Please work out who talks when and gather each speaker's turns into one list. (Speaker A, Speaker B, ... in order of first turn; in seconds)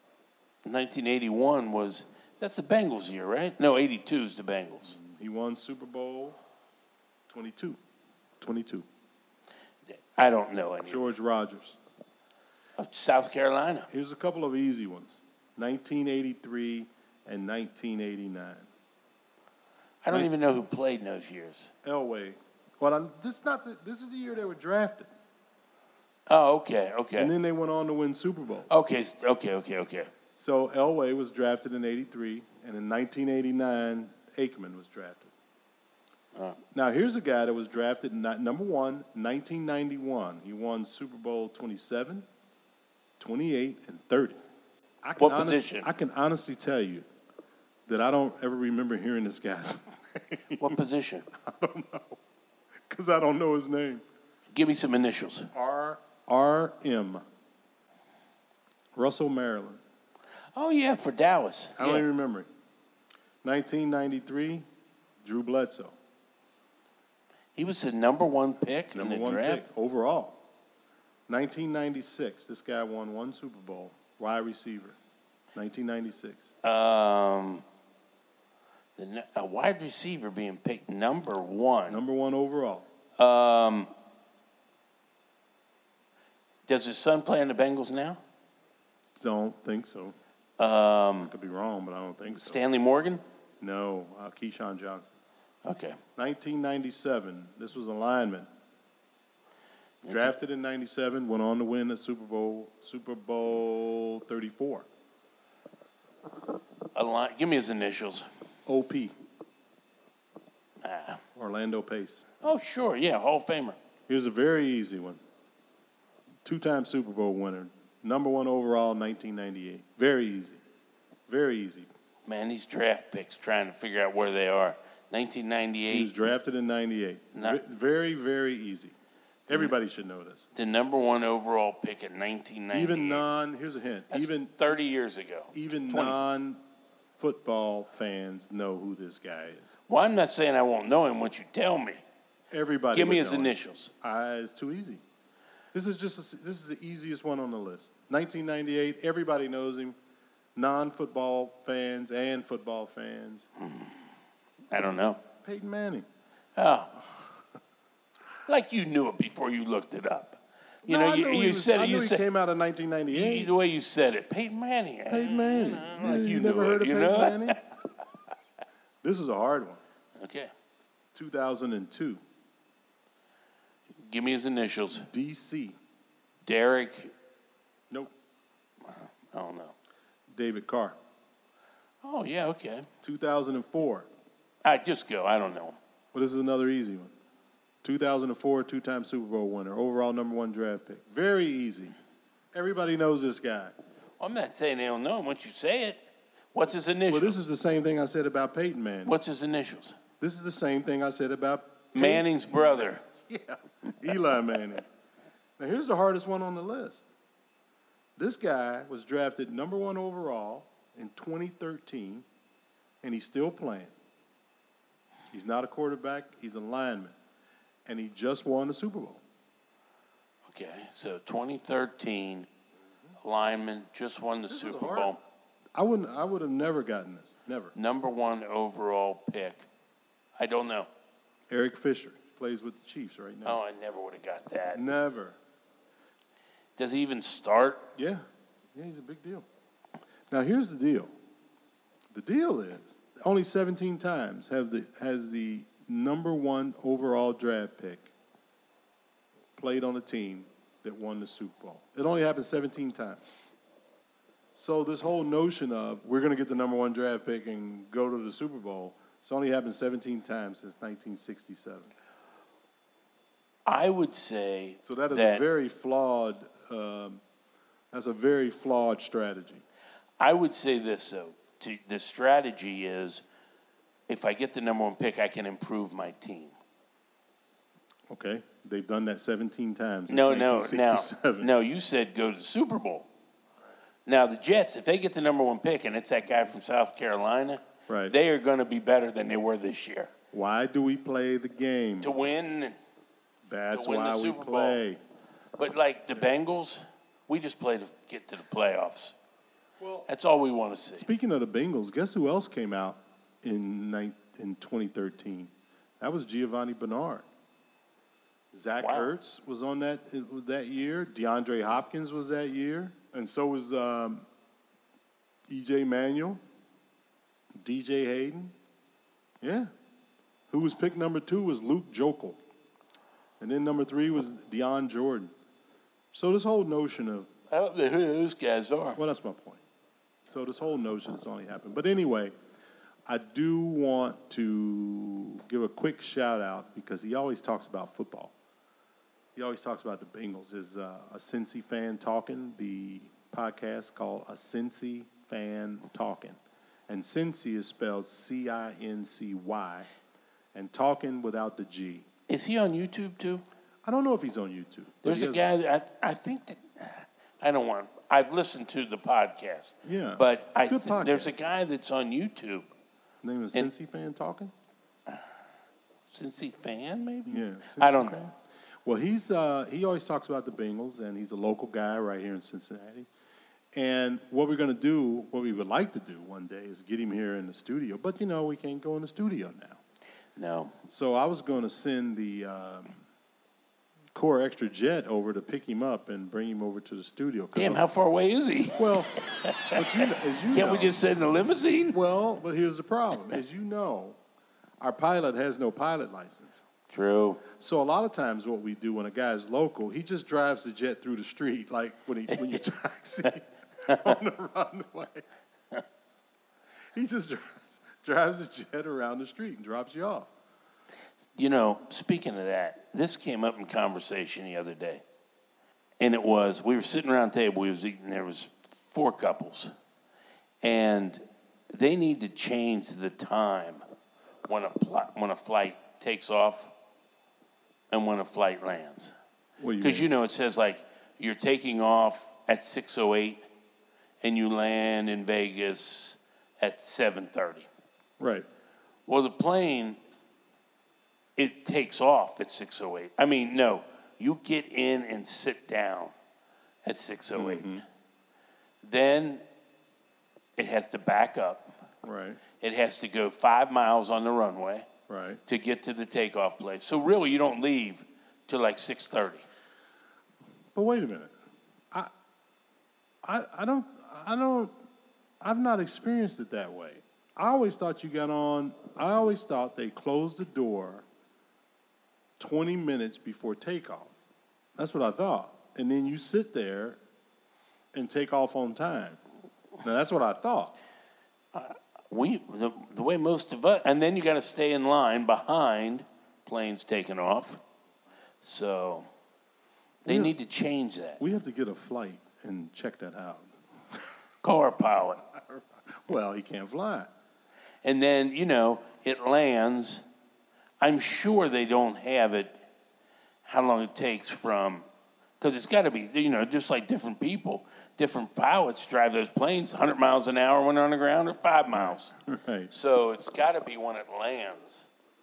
Speaker A: 0.6-5.0, 10.1-11.0, 12.8-13.9, 20.0-21.7, 26.3-27.3, 28.7-30.1, 36.4-36.6, 45.2-45.9, 50.6-51.3, 54.5-55.5, 60.5-62.0, 67.5-69.7, 76.6-77.6, 79.0-82.0, 83.2-83.9, 86.7-88.2, 90.6-91.3, 92.4-93.2, 95.6-96.0, 100.0-100.3, 107.0-108.2, 110.8-111.2, 112.4-113.8, 122.2-126.1, 127.3-127.6, 130.5-133.2, 134.1-136.2, 139.9-142.0, 142.9-143.9, 153.6-153.9, 154.7-155.2, 156.6-156.9, 158.5-162.2, 163.1-167.6, 170.2-170.5, 174.1-175.1, 176.5-177.1, 178.8-179.8, 182.0-182.9, 184.6-185.8, 194.2-197.4, 199.1-200.0, 201.9-203.0, 220.5-222.5, 223.2-225.2, 227.8-229.7, 230.4-230.9, 233.4-234.9, 236.8-237.9, 263.6-265.4, 270.2-273.2, 274.1-276.5, 280.1-283.1, 284.1-290.1, 292.0-292.8, 293.7-294.8, 295.6-299.1, 300.1-301.1, 308.8-309.1, 327.5-329.0, 352.3-353.4, 355.0-362.7, 366.1-368.2, 380.4-380.8, 387.5-392.0, 396.9-397.4, 403.9-404.2, 411.4-415.0, 416.0-419.7, 420.6-423.8, 424.5-426.7, 427.9-429.1, 429.8-433.4, 434.2-437.7, 439.1-440.0, 441.4-446.1, 446.8-447.7, 448.8-449.4, 450.6-451.7, 452.6-454.9, 455.5-459.4, 481.5-487.6, 488.4-489.1, 490.0-491.2, 494.4-495.2, 497.8-500.0, 500.8-502.6, 503.4-504.8, 505.4-512.1, 512.7-514.9
Speaker B: 4.9-6.4, 7.3-7.8, 8.4-8.9, 10.9-11.8, 13.9-18.7, 21.8-25.1, 27.2-28.7, 30.4-35.3, 36.7-42.2, 43.2-44.4, 45.0-47.0, 47.9-50.8, 51.3-52.2, 52.9-54.0, 55.5-57.2, 59.0-59.8, 61.8-62.5, 63.4-64.7, 65.2-66.0, 68.9-70.4, 71.3-75.0, 75.5-76.5, 81.9-82.8, 89.2-90.2, 91.2-92.6, 93.6-95.1, 96.2-98.5, 100.1-104.9, 108.7-109.1, 111.4-112.3, 114.1-115.2, 116.5-120.6, 121.3-121.9, 125.9-128.9, 129.5-130.5, 132.7-134.7, 135.5-136.6, 137.2-139.7, 142.5-145.0, 145.7-150.0, 150.6-153.5, 155.4-156.1, 160.9-163.5, 165.1-167.6, 169.0-169.8, 171.1-172.2, 174.9-175.8, 180.3-181.0, 183.0-184.1, 186.1-187.1, 187.8-192.0, 192.5-193.7, 197.1-199.1, 200.2-204.8, 205.6-207.1, 208.2-212.2, 213.0-213.9, 215.3-217.1, 217.9-219.2, 224.5-225.1, 225.8-227.7, 231.5-233.6, 234.8-235.4, 238.0-238.2, 238.8-239.4, 240.3-241.1, 242.1-248.1, 249.6-253.2, 254.6-261.9, 264.9-267.2, 267.9-269.6, 278.1-281.5, 287.9-288.1, 290.3-292.1, 293.5-295.0, 299.8-300.1, 301.0-307.2, 308.5-314.2, 315.5-316.4, 317.6-318.5, 319.4-319.7, 320.5-322.4, 323.4-325.3, 326.1-327.3, 329.0-329.6, 330.3-332.3, 333.1-338.3, 339.4-346.4, 346.9-349.9, 350.5-352.1, 353.9-355.4, 359.9-361.4, 363.2-364.5, 367.3-368.3, 368.9-373.1, 373.7-379.8, 380.9-383.0, 384.1-387.8, 388.8-391.0, 391.9-394.2, 394.8-396.6, 397.5-405.2, 406.9-410.3, 429.6-430.1, 438.2-438.5, 447.3-447.8, 452.0-452.4, 455.1-455.4, 460.8-461.3, 463.2-464.7, 465.4-471.1, 472.4-474.1, 474.8-477.0, 477.9-479.2, 479.8-480.8, 490.1-490.3, 491.2-493.6, 495.4-497.1, 511.7-512.7